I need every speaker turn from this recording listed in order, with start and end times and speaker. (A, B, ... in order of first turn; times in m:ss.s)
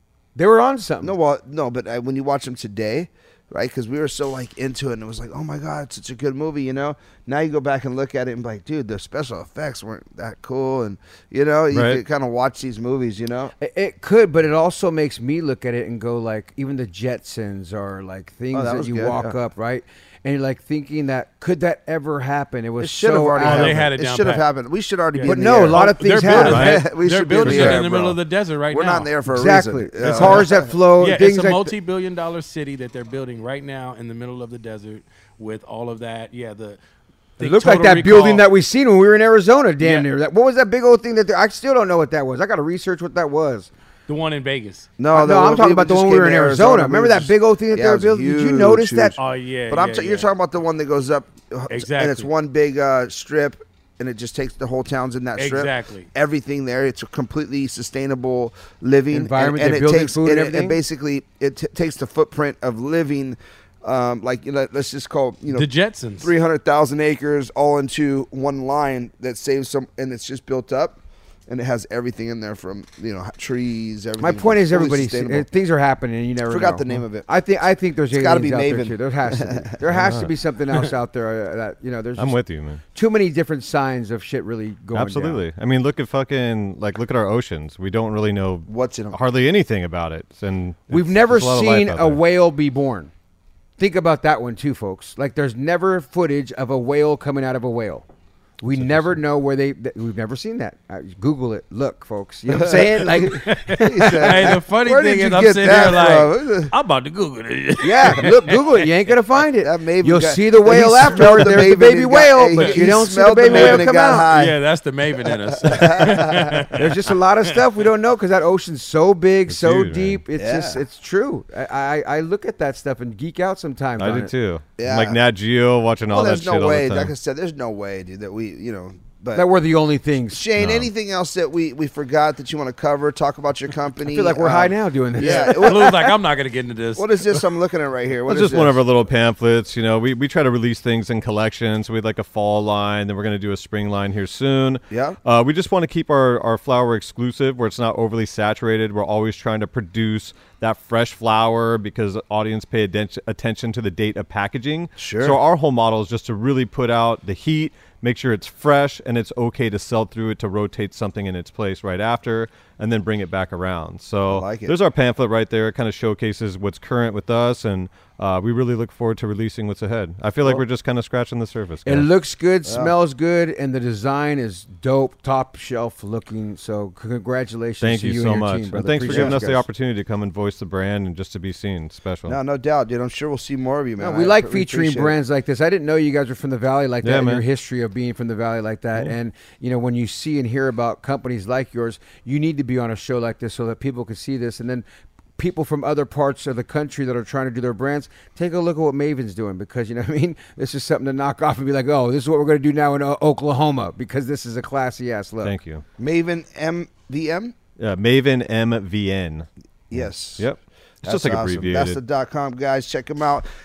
0:00.4-0:01.2 A
0:01.0-0:13.5 B
0:11.7-0:12.0 C
0:13.6-0:23.9 A
0:18.5-0:19.4 B
0:22.8-0:30.7 B
0:23.4-0:24.4 D
0:25.1-0:29.1 D
0:25.2-0:26.8 A
0:26.4-0:26.8 C
0:27.4-0:27.8 A
0:29.3-0:31.7 A
0:30.0-0:30.3 D
0:31.0-0:36.8 D
0:37.4-0:38.5 D
0:37.4-0:43.7 A
0:39.8-0:40.1 D
0:44.1-0:44.9 D
0:45.0-1:15.5 B
0:45.1-0:49.2 A
0:49.2-0:50.3 D
0:51.7-0:52.3 D
0:55.4-0:56.1 D
0:59.1-1:00.8 A
1:05.5-1:06.3 D
1:14.2-1:22.4 A
1:16.5-1:17.3 B
1:18.1-1:19.7 B
1:19.9-1:20.3 C
1:22.2-1:22.8 C
1:22.9-1:25.4 A
1:25.0-1:32.2 C
1:28.7-1:29.2 B
1:30.9-1:33.1 A
1:33.8-1:38.0 A
1:38.6-1:44.5 A
1:38.7-1:39.2 C
1:42.5-1:46.7 B
1:43.4-1:48.6 D
1:47.8-1:54.3 A
1:49.6-1:54.6 B
1:53.5-1:57.0 D
1:55.5-1:56.7 B
1:56.7-2:04.3 A
1:59.5-2:00.2 C
2:00.4-2:00.8 B
2:04.0-2:07.1 C
2:04.8-2:05.2 B
2:06.1-2:09.5 B
2:09.3-2:10.4 A
2:10.3-2:16.2 B
2:10.6-2:10.9 C
2:14.1-2:15.9 A
2:15.2-2:17.4 D
2:17.0-2:18.8 B
2:18.3-2:52.1 C
2:24.9-2:25.2 B
2:35.0-2:35.4 B
2:44.3-2:44.8 B
2:51.9-2:59.6 A
2:52.7-2:52.9 B
2:57.8-3:02.4 C
2:59.1-2:59.4 B
3:02.3-3:05.2 B
3:04.0-3:14.8 A
3:07.0-3:07.4 C
3:15.4-3:25.5 A
3:25.4-3:25.8 C
3:26.0-3:27.6 B
3:27.8-3:32.0 C
3:29.9-3:30.5 B
3:31.0-3:33.5 B